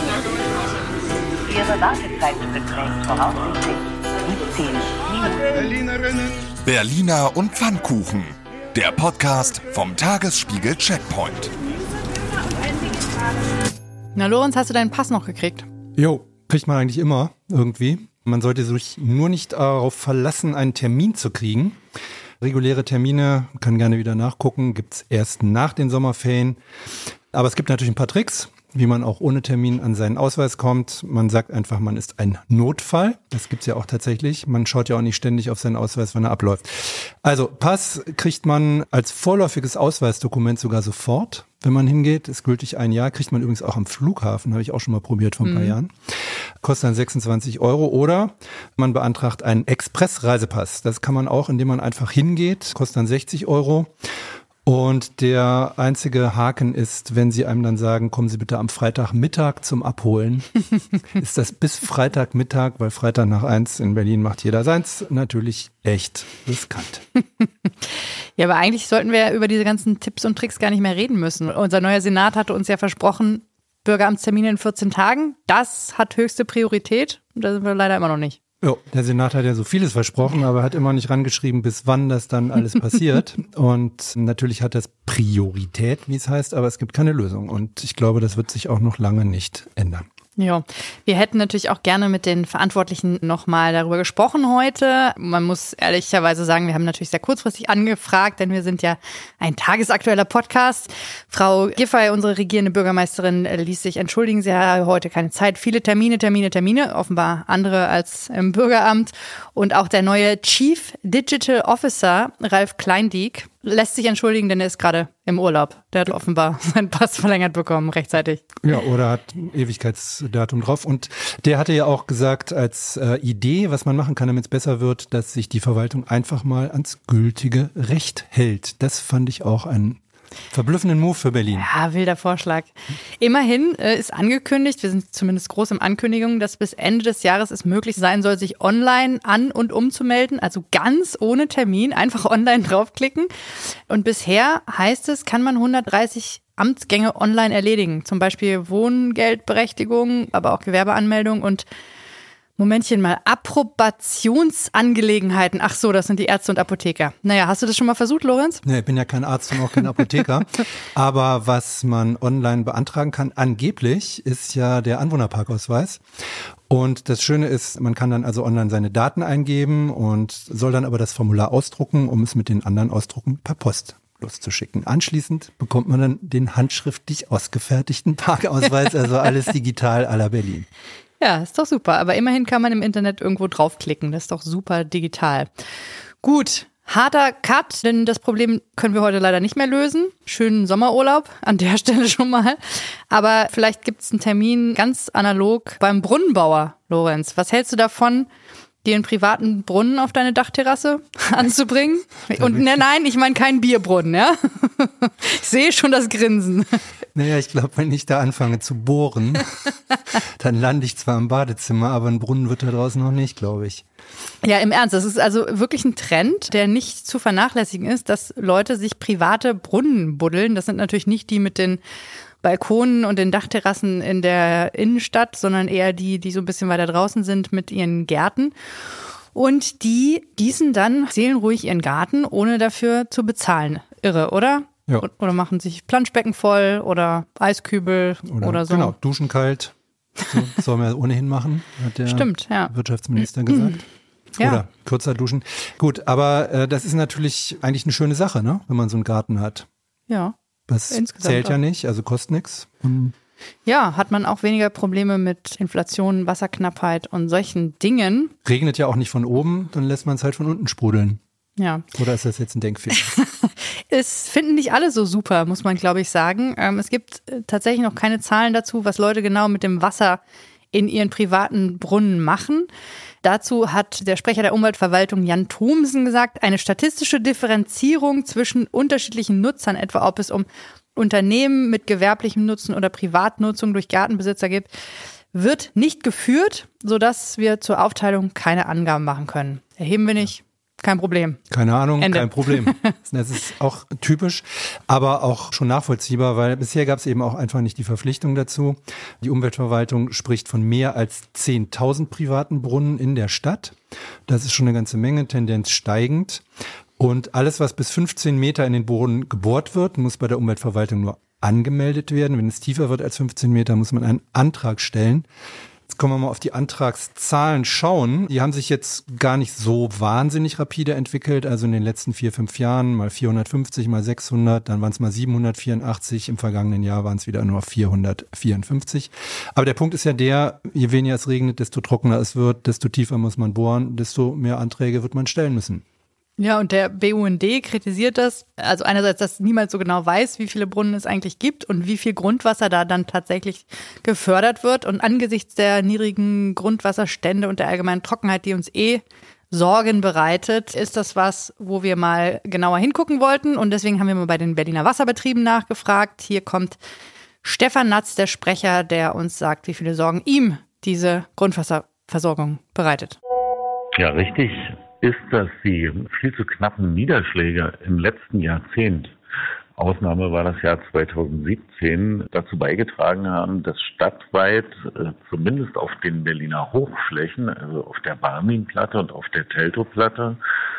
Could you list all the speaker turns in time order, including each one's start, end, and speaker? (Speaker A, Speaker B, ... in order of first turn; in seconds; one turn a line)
Speaker A: 1.5-5.9
Speaker B: 6.6-11.5
Speaker C: 14.2-15.7
Speaker D: 15.9-21.8
Speaker D: 22.4-26.6
Speaker D: 27.3-46.1
Speaker C: 45.4-45.7
Speaker D: 46.6-53.9
Speaker D: 54.6-60.6
Speaker D: 61.1-67.0
Speaker C: 68.4-78.4
Speaker D: 78.6-90.1
Speaker C: 90.4-118.4
Speaker D: 118.6-130.0
Speaker D: 130.5-131.7
Speaker C: 131.6-143.3
Speaker C: 143.9-151.6
Speaker C: 152.6-158.6
Speaker D: 158.6-166.0
Speaker D: 166.7-180.7
Speaker C: 181.2-185.5
Speaker C: 186.2-198.3
Speaker C: 198.8-206.8
Speaker D: 202.3-202.8
Speaker D: 207.1-209.5
Speaker D: 210.2-213.8
Speaker C: 214.4-221.8
Speaker C: 222.4-228.5
Speaker C: 229.3-238.9
Speaker D: 238.3-239.7
Speaker D: 240.3-243.8
Speaker C: 242.1-242.7
Speaker C: 243.5-243.8
Speaker D: 244.4-249.7
Speaker C: 244.4-244.6
Speaker C: 250.1-250.3
Speaker D: 250.7-253.1
Speaker C: 250.9-251.6
Speaker C: 253.7-258.3
Speaker D: 258.4-261.2
Speaker C: 261.6-261.8
Speaker D: 261.9-263.1
Speaker C: 263.1-270.2
Speaker C: 270.7-272.7
Speaker C: 273.2-284.7
Speaker C: 285.3-291.4
Speaker D: 291.5-303.8
Speaker C: 292.0-292.9
Speaker D: 304.3-306.4
Speaker D: 307.0-315.2
Speaker D: 315.9-335.8
Speaker C: 336.4-356.8
Speaker C: 357.4-363.2
Speaker E: 363.9-369.1
Speaker E: 369.8-380.4